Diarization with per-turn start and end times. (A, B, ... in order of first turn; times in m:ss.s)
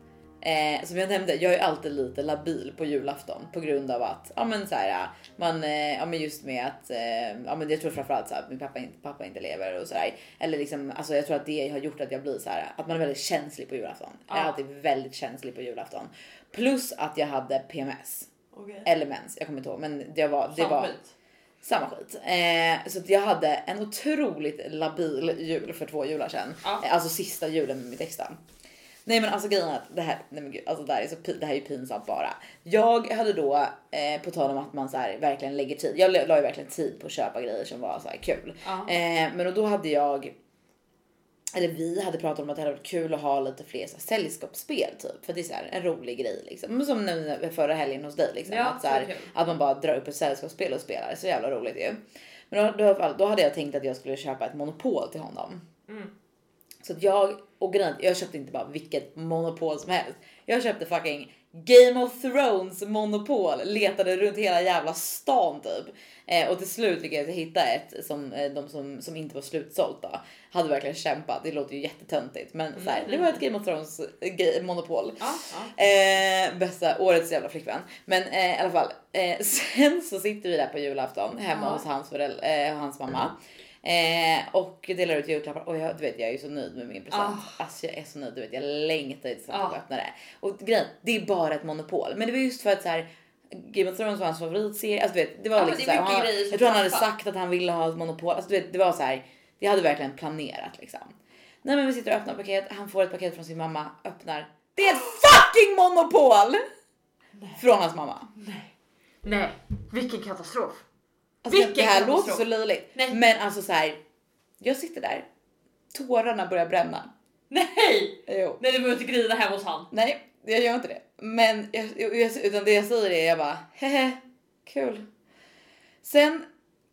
0:00.4-0:18.3 A
0:14.3-0:14.6 B
0:18.5-0:18.9 B
0:18.8-0:20.9 A
0:20.5-0:21.1 B
0:21.6-0:28.4 A
0:29.1-0:40.4 A
0:38.6-0:38.9 B
0:41.5-0:55.6 A
0:48.5-0:49.3 B
0:56.8-1:46.6 A
1:12.8-1:13.4 B
1:15.2-1:15.7 B
1:21.5-1:21.8 B
1:27.1-1:27.6 B
1:29.5-1:29.8 B
1:35.6-1:37.1 B
1:47.4-1:47.6 B
1:47.6-1:48.3 A
1:48.4-1:48.7 B
1:49.2-1:50.8 B
1:51.4-1:54.0 A
1:51.5-1:53.2 B
1:54.6-1:55.3 A
1:55.9-1:57.1 A
1:57.5-1:59.9 B
1:58.3-1:58.6 A
1:59.9-2:05.1 A
2:06.0-2:06.5 A